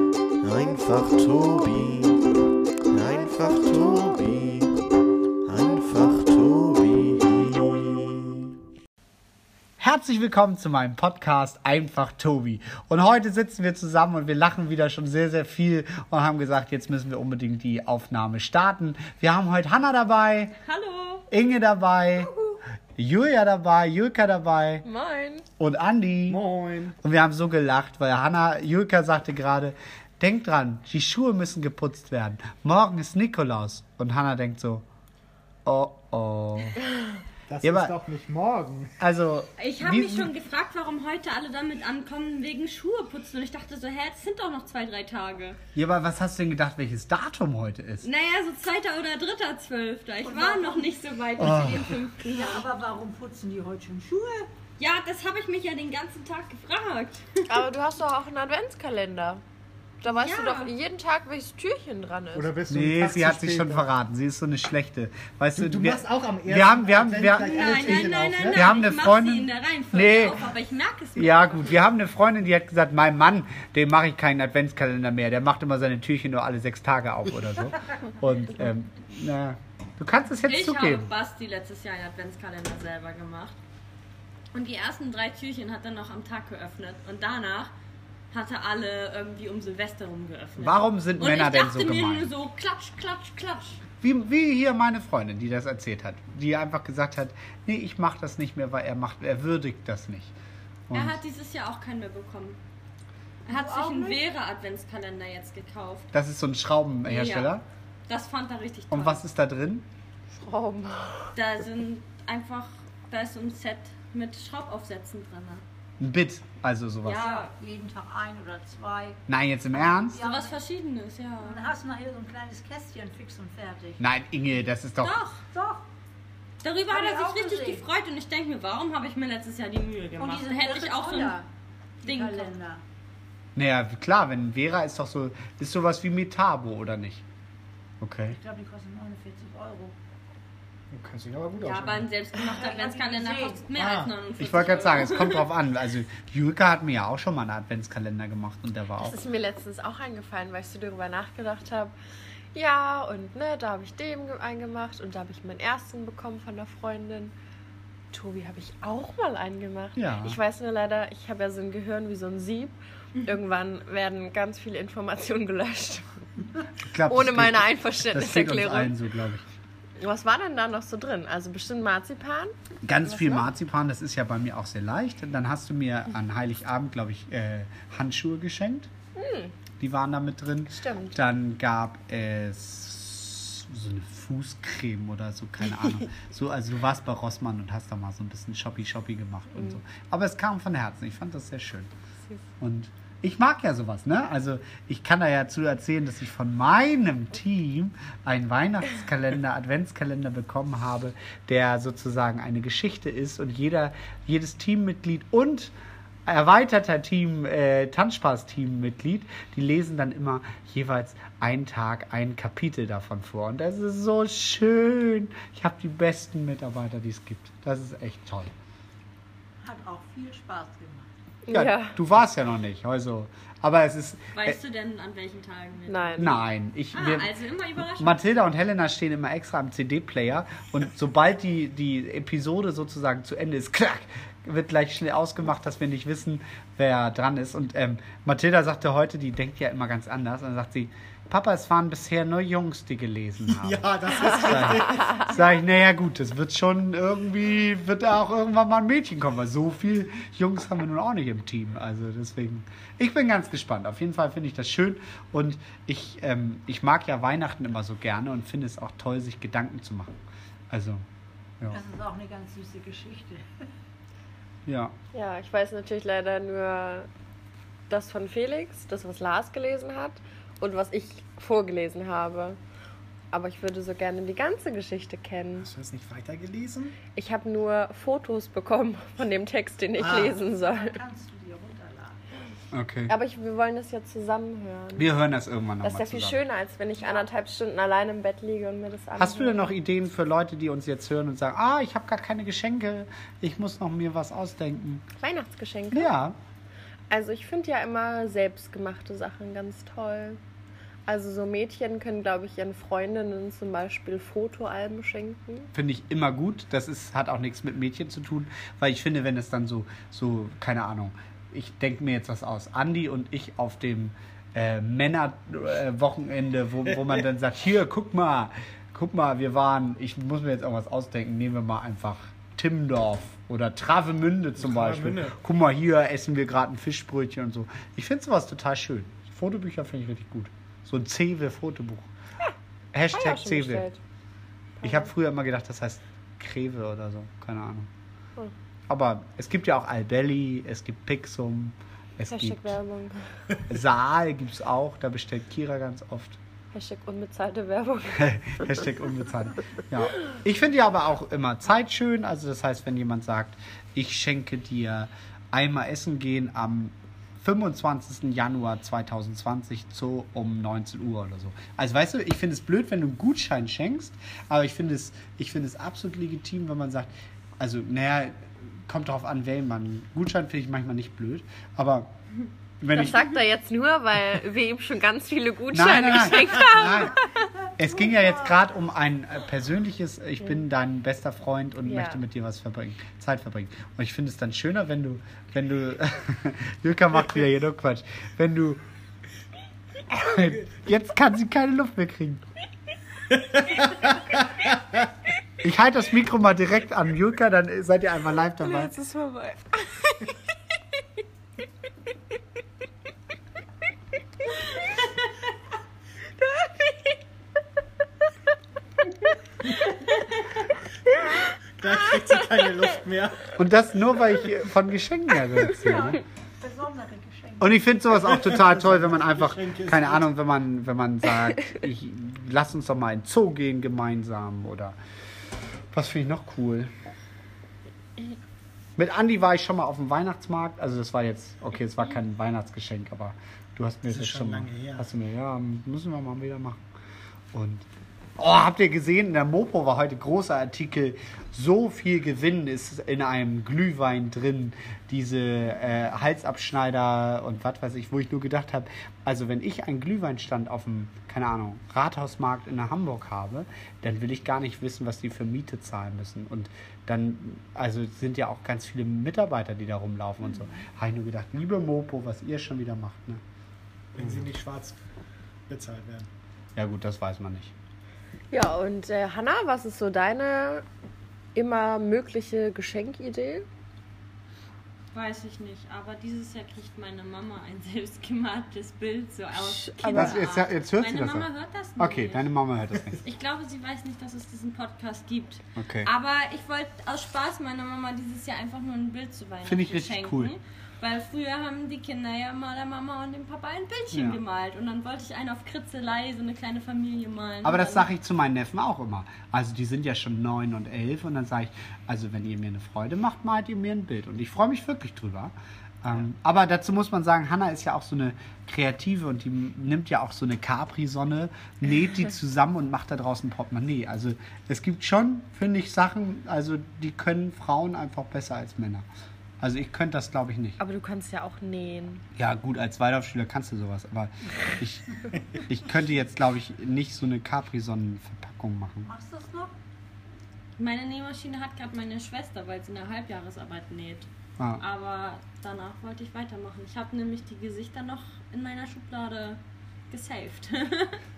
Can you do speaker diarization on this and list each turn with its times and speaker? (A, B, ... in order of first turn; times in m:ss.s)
0:00.4-0:02.2 A
0:02.9-0:04.9 A
0:05.4-0:08.5 A
0:09.8-0:20.5 B
0:20.6-0:21.3 C
0:21.3-0:22.3 B
0:23.0-0:24.8 B
0:24.8-0:25.4 D
0:25.6-0:26.4 B
0:26.3-0:27.0 E
0:27.0-0:34.8 B
0:35.6-0:36.8 B
0:37.5-0:38.9 E
0:37.6-0:37.9 B
0:39.0-0:40.3 B
0:39.6-0:45.6 C
0:45.7-0:48.1 B
0:48.0-0:52.7 C
0:50.2-0:51.6 F
0:51.4-0:52.0 B
0:52.2-0:54.5 F
0:54.8-0:57.6 C
0:57.5-0:59.4 D
1:00.0-1:02.5 D
1:00.0-1:00.7 C
1:02.3-1:03.9 E
1:02.7-1:10.4 B
1:05.6-1:08.8 E
1:07.4-1:11.8 C
1:11.2-1:21.1 B
1:20.4-1:23.6 C
1:24.5-1:27.7 C
1:28.3-1:33.8 C
1:30.6-1:32.3 B
1:34.0-1:40.3 B
1:40.9-1:41.2 B
1:40.9-1:42.6 C
1:43.4-1:46.1 C
1:43.5-1:44.2 F
1:46.1-1:47.6 B
1:47.0-1:47.5 C
1:48.1-1:49.2 C
1:48.9-1:49.8 B
1:50.3-1:51.3 D
1:51.3-1:55.6 C
1:56.0-1:57.3 B
1:57.0-1:57.5 C
1:57.2-1:59.2 F
1:59.3-2:00.2 B
1:59.7-2:00.6 F
2:00.2-2:01.6 C
2:01.4-2:04.0 F
2:04.0-2:05.2 B
2:05.0-2:05.4 C
2:05.5-2:05.8 F
2:06.6-2:11.4 C
2:06.9-2:07.9 F
2:10.2-2:11.5 F
2:12.0-2:12.8 F
2:12.0-2:12.5 C
2:13.5-2:17.2 B
2:18.0-2:18.4 B
2:18.3-2:20.0 F
2:20.9-2:22.1 E
2:21.5-2:25.5 C
2:22.4-2:23.7 F
2:23.7-2:24.1 E
2:24.4-2:29.2 B
2:29.0-2:31.9 D
2:32.5-2:37.3 D
2:38.1-2:46.1 D
2:40.0-2:40.4 B
2:46.8-2:49.4 B
2:47.1-2:48.9 D
2:50.0-2:53.4 D
2:52.8-2:58.9 B
2:59.2-2:59.5 D
2:59.8-3:11.9 B
3:00.7-3:01.2 D
3:12.6-3:25.7 B
3:26.2-3:38.5 B
3:39.6-3:41.1 F
3:41.5-3:42.0 D
3:41.5-3:44.6 B
3:44.3-3:48.2 C
3:45.9-3:46.4 D
3:46.2-4:20.1 B
4:03.4-4:05.3 E
4:20.7-4:21.0 B
4:21.7-4:23.4 F
4:24.6-4:24.9 B
4:25.1-4:27.1 D
4:27.9-4:32.6 D
4:33.3-4:35.7 D
4:35.6-4:37.0 E
4:37.1-4:41.0 D
4:40.0-4:40.3 E
4:40.0-4:42.2 F
4:42.7-4:43.1 B
4:43.1-4:45.1 D
4:44.9-4:46.4 B
4:45.8-4:49.7 D
4:49.2-4:55.0 B
4:55.2-4:56.1 D
4:55.9-4:56.4 B
4:57.1-5:00.4 D
5:01.1-5:05.7 D
5:05.7-5:32.1 B
5:24.6-5:25.4 E
5:32.9-5:33.9 B
5:33.1-5:34.0 D
5:34.8-5:35.1 D
5:34.8-5:37.9 B
5:38.9-5:42.8 B
5:42.3-5:43.3 D
5:43.7-5:46.4 B
5:46.7-5:48.8 D
5:48.1-6:12.1 B
6:12.8-6:13.3 B
6:12.9-6:17.5 D
6:15.7-6:17.2 B
6:17.8-6:28.8 B
6:21.8-6:22.2 D
6:30.1-6:32.4 B
6:33.3-6:34.0 E
6:35.6-6:39.0 B
6:38.6-6:40.4 D
6:46.4-6:47.1 D
6:51.8-6:53.6 E
6:53.6-6:56.2 B
6:55.7-6:58.0 F
6:57.6-7:05.0 B
6:58.4-7:00.3 E
7:05.9-7:06.9 B
7:09.0-7:16.8 B
7:14.1-7:15.1 E
7:17.5-7:17.8 B
7:18.4-7:43.4 B
7:44.1-7:45.0 E
7:44.2-7:44.5 B
7:45.7-7:46.3 E
7:46.8-7:47.7 B
7:48.5-7:50.8 D
7:51.5-7:53.7 D
7:55.1-8:02.5 C
7:59.8-8:00.5 D
8:00.1-8:03.2 B
8:03.2-8:18.1 C
8:05.7-8:06.1 B
8:09.6-8:10.5 B
8:14.1-8:14.4 B
8:17.6-8:39.0 B
8:39.6-8:40.8 B
8:40.8-8:42.2 D
8:42.3-8:49.1 B
8:49.0-8:49.7 F
8:50.8-8:54.3 C
8:54.6-8:54.8 B
8:54.8-9:01.2 C